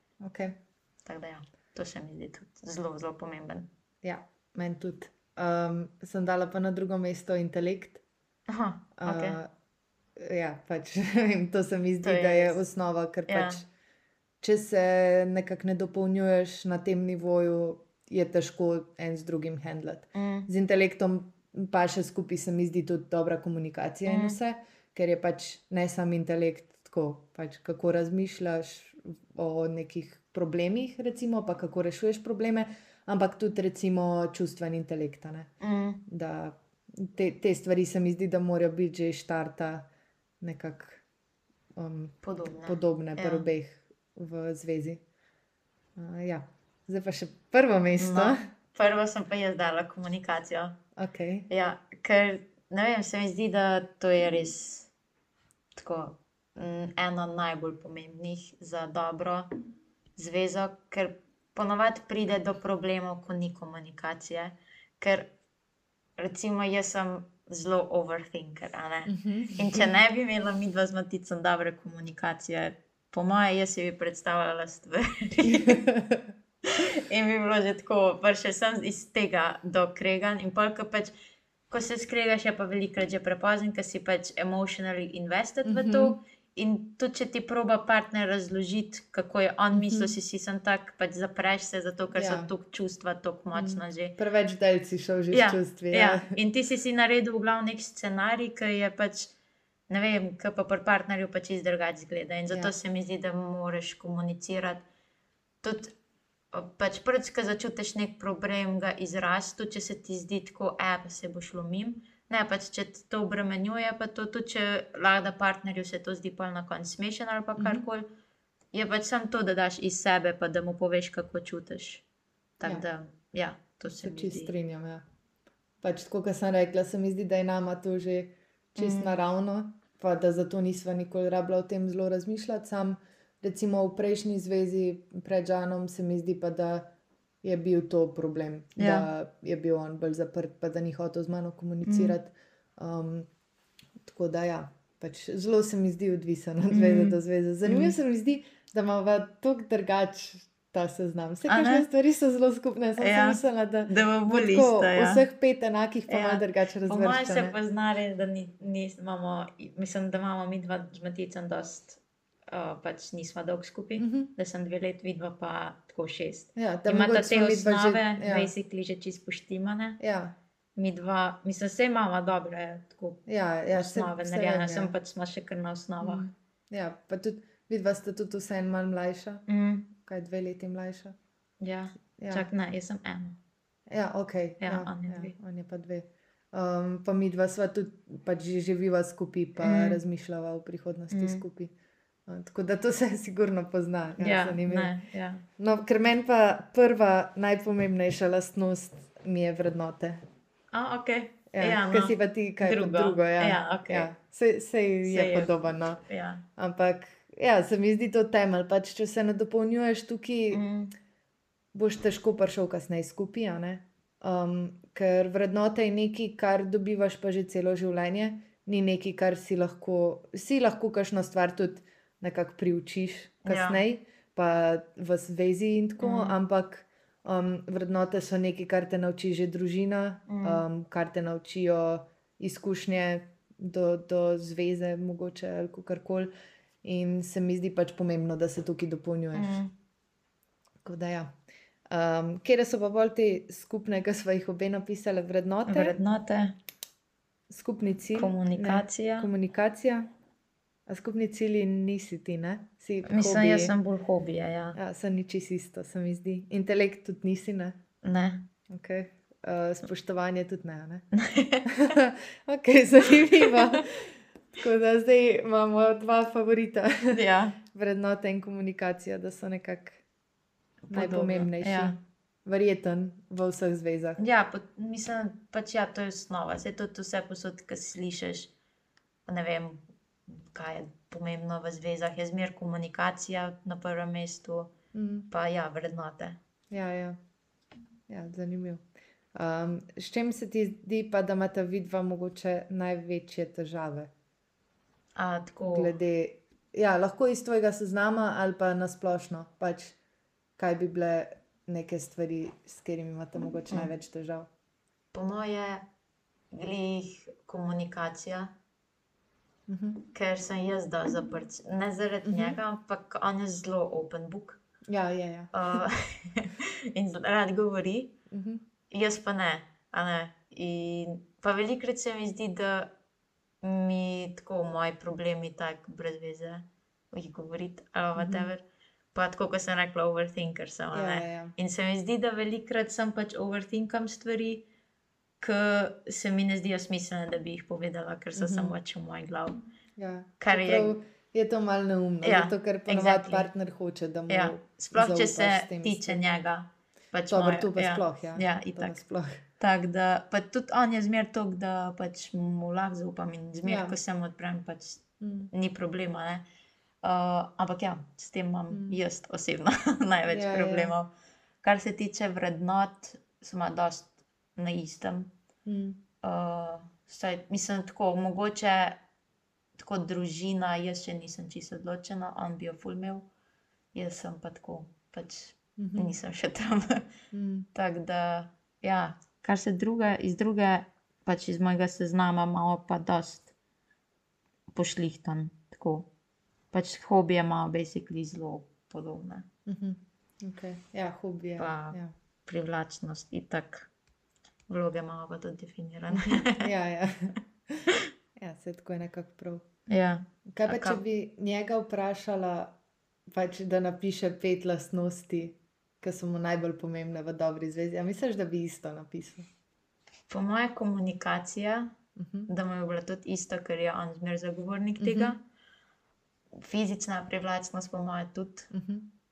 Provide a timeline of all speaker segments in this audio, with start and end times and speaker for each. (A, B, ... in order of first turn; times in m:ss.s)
0:00.2-0:00.6 A
0:01.0-0:03.7 B
0:04.0-0:08.0 A
0:08.5-0:09.4 B
0:09.0-0:09.5 A
0:10.2-0:13.7 A
0:12.0-0:12.6 B
0:13.3-0:13.6 B
0:14.4-0:35.5 A
0:20.2-0:20.5 B
0:24.1-0:24.4 B
0:35.6-0:36.0 B
0:36.1-0:39.9 A
0:40.4-0:41.0 A
0:41.8-0:45.0 A
0:42.2-0:43.5 B
0:46.0-0:48.4 A
0:48.0-0:50.8 B
0:51.0-0:51.5 A
0:51.5-0:54.9 B
0:55.8-0:59.5 B
1:00.2-1:05.3 B
1:06.2-1:15.8 B
1:09.1-1:09.9 A
1:15.4-1:16.3 A
1:16.6-1:21.1 B
1:21.7-1:34.2 B
1:25.6-1:26.2 A
1:29.7-1:30.1 A
1:32.1-1:32.5 A
1:33.5-1:36.4 A
1:35.3-1:39.3 B
1:39.9-1:44.8 B
1:45.6-1:46.0 B
1:46.5-1:58.1 B
1:57.6-1:57.8 A
1:58.7-2:02.0 B
2:02.6-2:04.5 B
2:04.0-2:05.0 A
2:05.8-2:23.3 A
2:08.8-2:09.2 B
2:18.8-2:19.1 B
2:21.8-2:22.2 B
2:24.0-2:37.6 A
2:26.7-2:28.0 B
2:31.5-2:31.9 B
2:33.0-2:35.2 B
2:36.1-2:50.0 B
2:44.0-2:44.3 A
2:46.6-2:48.5 A
2:50.0-2:50.4 A
2:50.8-2:56.3 B
2:53.3-2:54.9 A
2:56.0-2:59.5 A
2:59.5-2:59.9 B
3:00.0-3:01.2 A
3:01.6-3:03.4 B
3:02.2-3:02.5 A
3:03.9-3:11.7 A
3:04.6-3:05.4 B
3:09.6-3:10.0 B
3:11.1-3:11.4 B
3:12.3-3:14.9 A
3:14.2-3:15.5 B
3:15.6-3:20.2 A
3:20.7-3:24.1 B
3:21.5-3:26.0 A
3:25.0-3:25.5 B
3:26.0-3:26.4 B
3:26.6-3:30.6 A
3:30.5-3:30.9 B
3:31.7-3:56.3 A
3:43.4-3:43.8 B
3:46.0-3:46.4 B
3:50.3-3:50.6 B
3:56.8-3:59.6 A
3:59.3-3:59.7 B
4:00.8-4:01.4 A
4:01.9-4:06.0 A
4:05.7-4:06.6 B
4:07.5-4:10.1 A
4:08.2-4:09.3 B
4:10.9-4:13.7 A
4:13.0-4:14.8 B
4:14.8-4:17.8 A
4:18.0-4:18.5 B
4:18.7-4:21.1 A
4:21.1-4:21.7 B
4:21.7-4:30.0 A
4:23.4-4:23.8 B
4:27.1-4:27.6 B
4:30.9-4:32.0 B
4:30.9-4:34.2 A
4:34.2-4:38.5 B
4:39.3-4:44.7 B
4:44.9-4:45.3 A
4:45.3-4:46.4 B
4:46.7-4:47.2 A
4:48.1-4:54.1 A
4:55.2-4:55.9 B
4:55.7-5:00.0 A
5:00.6-5:04.5 A
5:05.1-5:05.9 B
5:06.5-5:08.5 B
5:09.7-5:10.0 A
5:10.1-5:14.6 B
5:12.2-5:12.6 A
5:14.9-5:15.8 A
5:15.5-5:18.1 B
5:18.3-5:18.6 A
5:18.9-5:22.9 B
5:23.6-5:28.6 B
5:28.2-5:28.5 A
5:29.1-5:34.7 B
5:30.9-5:31.6 A
5:35.4-5:39.6 B
5:38.4-5:38.8 A
5:40.0-5:46.2 A
5:40.4-5:41.0 B
5:42.2-5:43.5 B
5:44.3-5:49.0 B
5:47.3-5:49.4 A
5:49.6-5:56.4 B
5:53.6-5:54.0 A
5:55.2-5:55.5 A
5:57.0-6:01.1 B
5:58.7-5:59.0 A
6:00.3-6:00.9 A
6:01.6-6:05.3 B
6:05.7-6:06.0 A
6:06.2-6:09.0 B
6:09.8-6:13.3 B
6:13.9-6:17.1 B
6:15.8-6:16.2 A
6:17.3-6:17.7 A
6:17.7-6:23.5 B
6:24.7-6:26.1 B
6:26.7-6:29.5 B
6:29.7-6:32.1 A
6:31.6-6:33.9 B
6:34.7-6:36.7 B
6:36.2-6:39.6 A
6:39.9-6:41.0 B
6:40.5-6:42.8 A
6:43.3-6:49.5 A
6:50.3-6:52.0 B
6:52.2-6:52.5 A
6:52.5-6:55.4 B
6:55.0-6:55.4 A
6:56.6-6:58.7 B
6:58.7-6:59.1 A